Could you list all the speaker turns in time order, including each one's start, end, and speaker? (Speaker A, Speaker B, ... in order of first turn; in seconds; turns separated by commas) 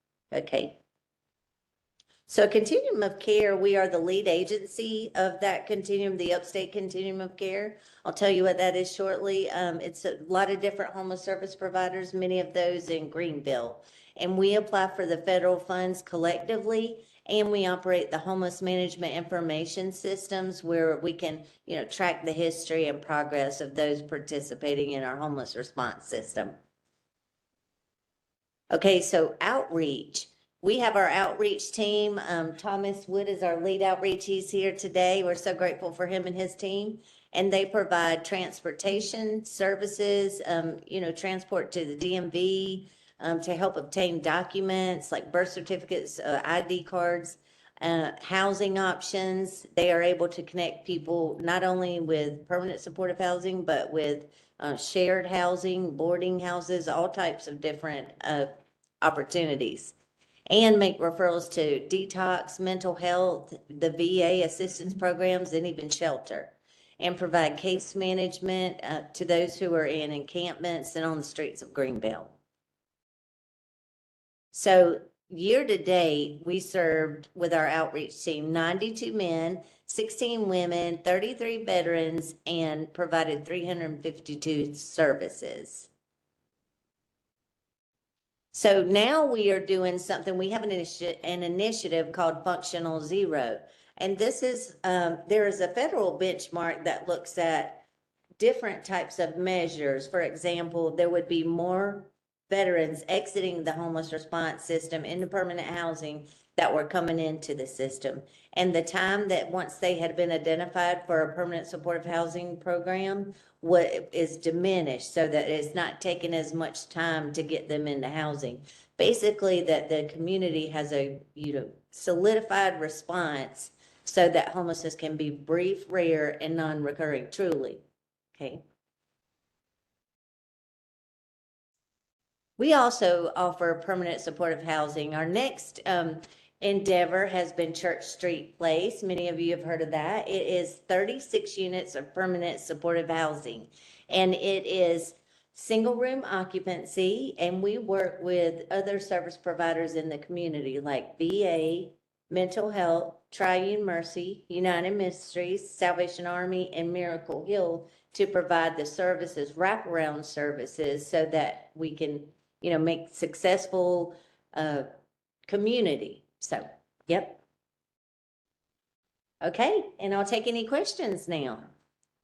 Speaker A: 0.3-0.8, Speaker A: 2.3-26.6, Speaker A: 28.7-59.9, Speaker A: 60.5-72.3, Speaker A: 74.5-85.9, Speaker A: 88.5-97.8, Speaker A: 98.4-127.8, Speaker A: 128.3-128.6, Speaker A: 132.6-164.9, Speaker A: 165.5-167.4, Speaker A: 169.4-171.7